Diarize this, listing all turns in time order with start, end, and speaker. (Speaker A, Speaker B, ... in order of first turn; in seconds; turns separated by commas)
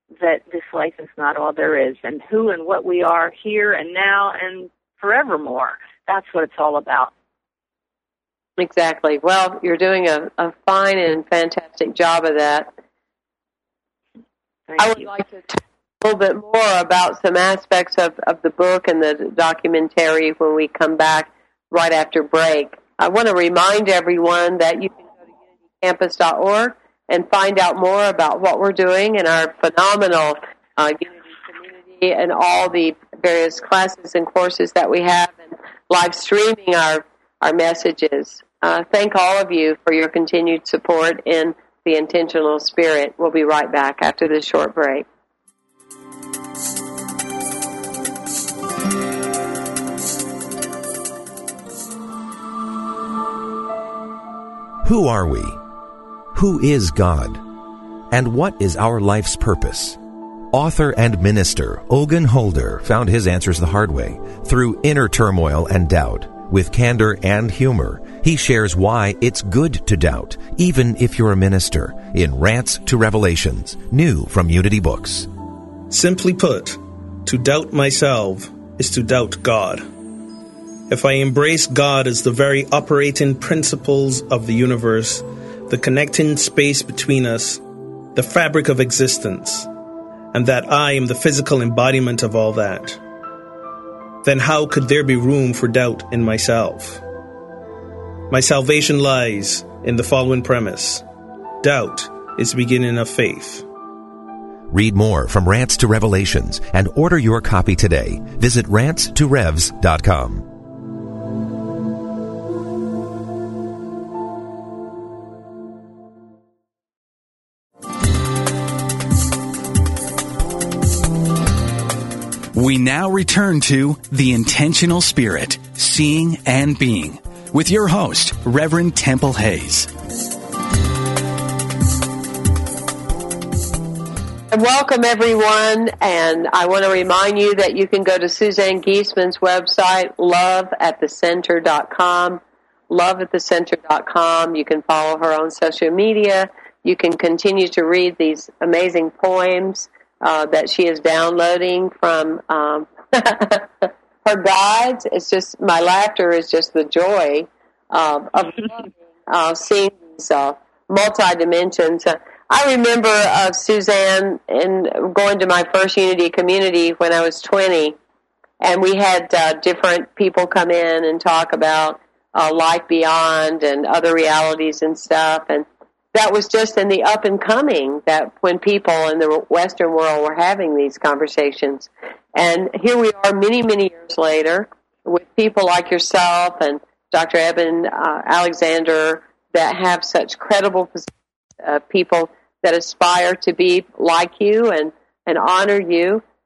Speaker A: 0.2-7.1, Speaker B: 8.6-12.7, Speaker A: 14.7-15.1, Speaker B: 14.8-45.0, Speaker C: 54.8-55.6, Speaker C: 56.3-57.4, Speaker C: 58.1-60.0, Speaker C: 60.5-75.3, Speaker D: 75.9-79.9, Speaker D: 80.9-87.6, Speaker D: 88.1-89.7, Speaker D: 90.3-93.0, Speaker D: 94.2-97.0, Speaker D: 98.3-101.0, Speaker D: 101.6-103.7, Speaker C: 104.7-110.5, Speaker E: 122.5-129.9, Speaker B: 134.5-167.9, Speaker B: 168.6-196.2